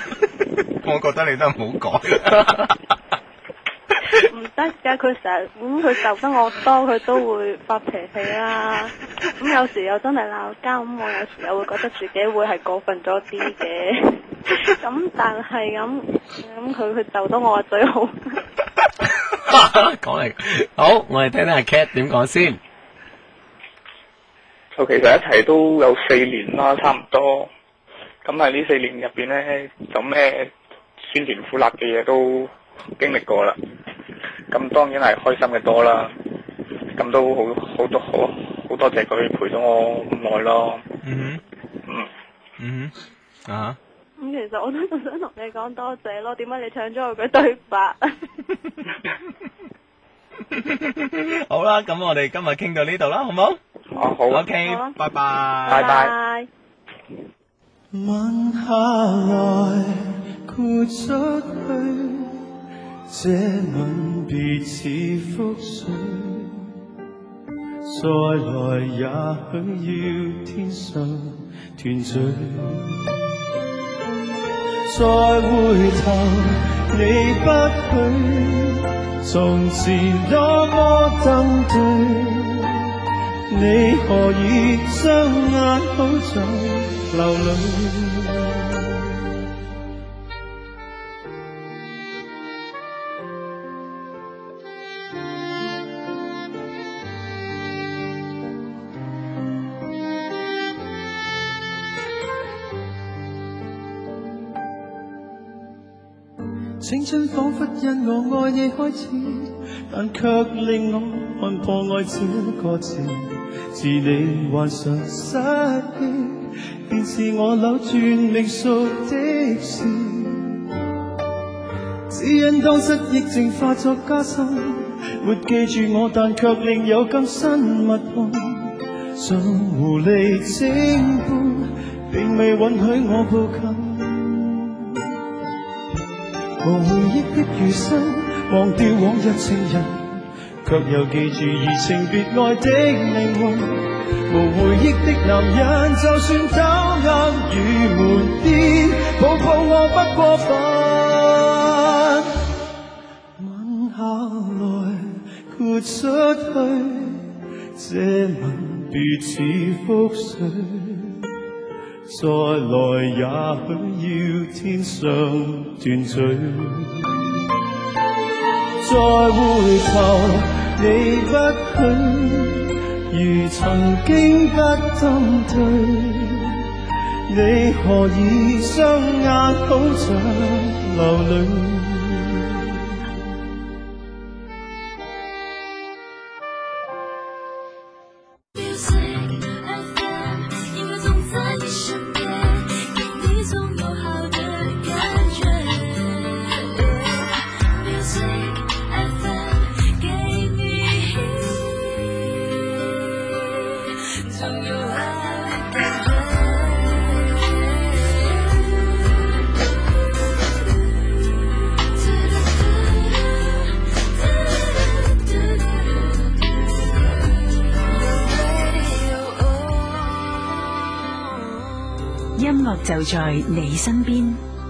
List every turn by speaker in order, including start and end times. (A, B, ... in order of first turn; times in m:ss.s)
0:00.8-0:02.8 A
0:04.1-0:18.4 B
0:19.3-0:22.6 C
0:24.8-0:27.5 D
0:28.2-0:30.5 D
0:31.0-0:33.6 D
0:34.5-0:36.1 D
0:37.0-0:40.8 D
0:41.0-0:41.4 A
0:42.6-0:42.9 A
0:43.4-0:43.8 A
0:44.2-0:48.2 B
0:50.5-0:53.6 A
0:54.0-0:54.5 D
0:54.0-0:55.0 B
0:54.3-0:55.9 A
0:55.7-0:56.1 D
0:55.7-0:56.5 B
0:57.9-1:02.3 E
1:03.1-1:06.7 E
1:07.8-1:13.0 E
1:14.9-1:22.7 E
1:23.5-1:28.7 E
1:46.8-2:00.6 E
2:02.1-2:14.8 E
2:16.6-2:32.2 E
2:33.4-2:37.2 E
2:37.8-2:41.2 E
2:42.1-2:47.0 E
2:48.8-2:56.5 E
2:57.3-3:02.4 E
3:08.5-3:29.3 F
3:30.3-3:40.7 F
3:42.3-3:44.4 G